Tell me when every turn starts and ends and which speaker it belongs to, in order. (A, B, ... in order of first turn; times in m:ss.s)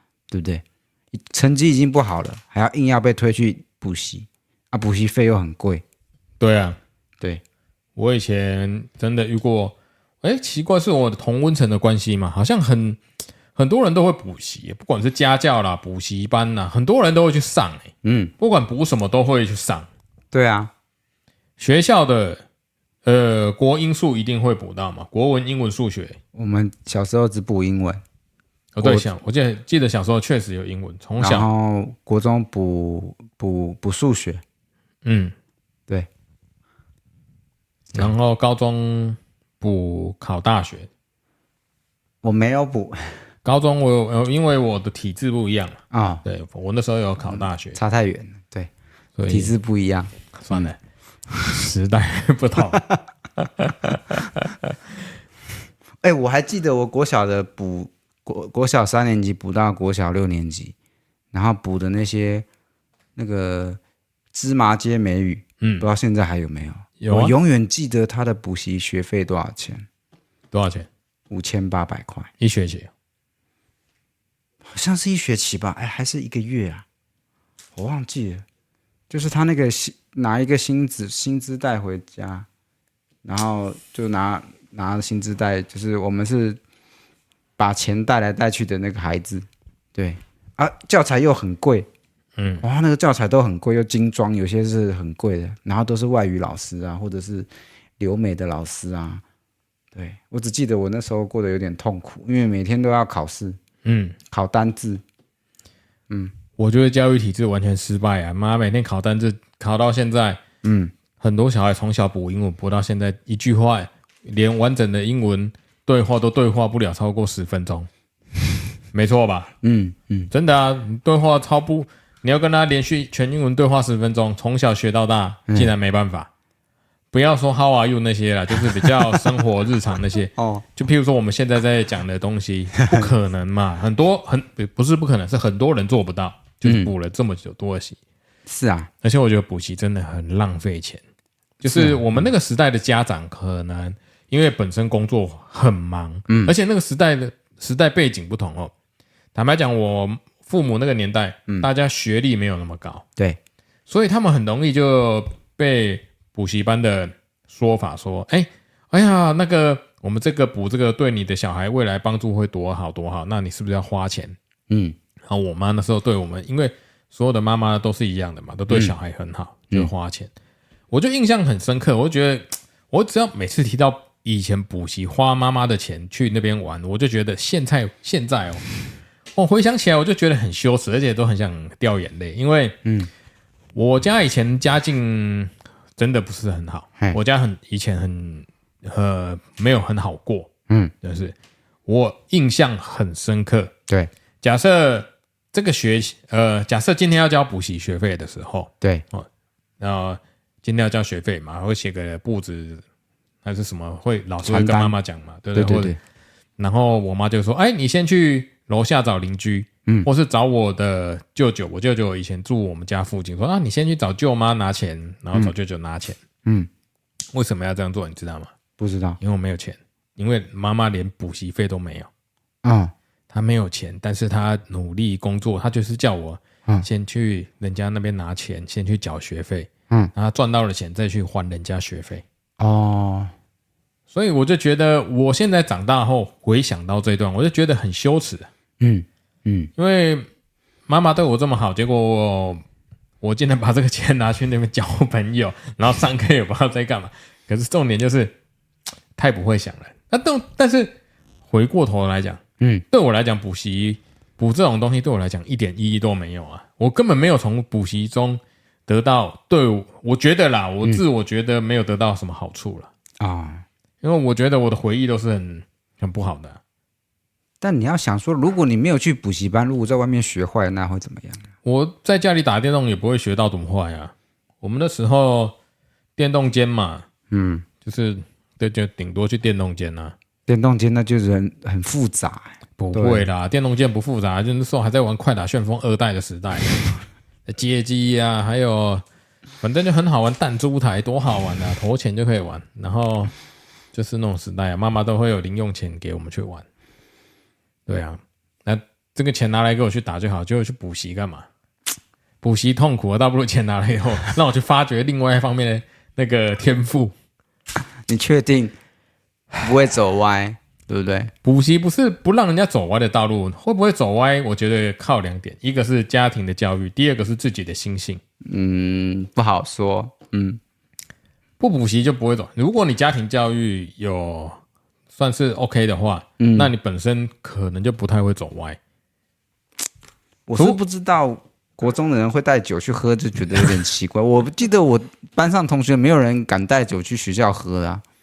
0:00.3-0:05.8 A
0:06.4-0:06.8 B
0:08.0-0:13.0 B
0:13.5-0:19.9 B
0:18.0-0:18.3 A
0:20.3-0:20.7 A
0:21.6-0:22.4 B
0:23.0-0:26.2 B
0:26.3-0:28.0 A
0:28.8-0:31.5 B
0:28.8-0:29.1 A
0:31.2-0:34.4 A
0:35.0-0:35.3 B
0:37.9-0:40.9 B
0:42.2-0:43.2 A
0:43.4-0:47.8 B
0:45.9-0:46.2 A
0:47.2-0:48.7 A
0:49.2-0:49.5 B
0:49.3-0:50.7 A
0:50.4-0:50.8 B
0:51.5-0:52.8 B
0:53.4-0:54.7 B
0:56.0-1:00.7 A
1:01.3-1:02.4 A
1:03.2-1:03.8 A
1:04.3-1:09.8 A
1:05.6-1:05.9 B
1:07.0-1:07.3 B
1:10.5-1:10.9 B
1:11.3-1:12.3 A
1:12.4-1:12.9 B
1:14.6-1:16.8 A
1:17.8-1:18.4 A
1:19.1-1:22.5 A
1:23.2-1:26.6 A
1:27.6-1:31.9 A
1:32.4-1:32.6 B
1:32.6-1:39.2 A
1:39.9-1:43.6 A
1:43.8-1:44.2 B
1:44.3-1:45.0 A
1:46.1-1:46.3 A
1:46.6-1:50.4 B
1:50.6-1:50.9 A
1:51.2-1:57.9 B
1:58.9-1:59.5 B
1:59.6-2:00.3 A
2:00.3-2:06.3 B
2:07.1-2:18.0 B
2:08.6-2:09.3 A
2:10.4-2:10.6 A
2:16.6-2:16.9 A
2:18.4-2:18.9 A
2:19.0-2:21.0 B
2:21.6-2:28.7 B
2:21.6-2:22.3 A
2:26.3-2:26.5 A
2:29.3-2:33.0 B
2:33.9-2:44.4 B
2:44.7-2:45.0 A
2:45.3-2:50.3 B
2:48.7-2:48.9 A
2:50.9-2:58.6 B
2:59.4-3:02.8 B
3:02.8-3:03.1 A
3:03.7-3:10.5 B
3:11.0-3:11.3 B
3:11.8-3:13.7 B
3:14.4-3:19.3 B
3:19.8-3:22.8 B
3:23.4-3:25.9 B
3:24.4-3:25.0 A
3:25.5-3:26.0 A
3:26.6-3:36.2 B
3:37.3-3:38.5 B
3:38.8-3:39.2 A
3:39.2-3:42.1 B
3:42.6-3:42.9 A
3:43.3-3:52.2 B
3:52.6-3:53.3 A
3:54.1-3:58.5 B
3:58.8-3:59.7 A
3:59.8-4:00.3 B
4:00.9-4:02.6 B
4:03.2-4:08.3 B
4:09.2-4:11.0 B
4:11.5-4:22.9 B
4:12.6-4:12.8 A
4:23.2-4:23.6 A
4:24.0-4:26.6 B
4:27.6-4:31.4 A
4:31.6-4:35.6 B
4:36.2-4:37.0 B
4:37.3-4:37.6 A
4:37.8-4:40.1 B
4:40.5-4:43.3 A
4:42.8-4:46.8 B
4:47.5-4:49.0 B
4:49.6-4:53.3 B
4:53.9-4:56.6 B
4:57.9-5:01.4 B
5:02.4-5:07.1 B
5:08.1-5:08.7 A
5:09.6-5:11.3 A
5:11.4-5:18.2 B
5:18.4-5:20.6 A
5:21.6-5:24.6 B
5:25.1-5:28.8 B
5:26.4-5:26.7 A
5:30.5-5:38.0 A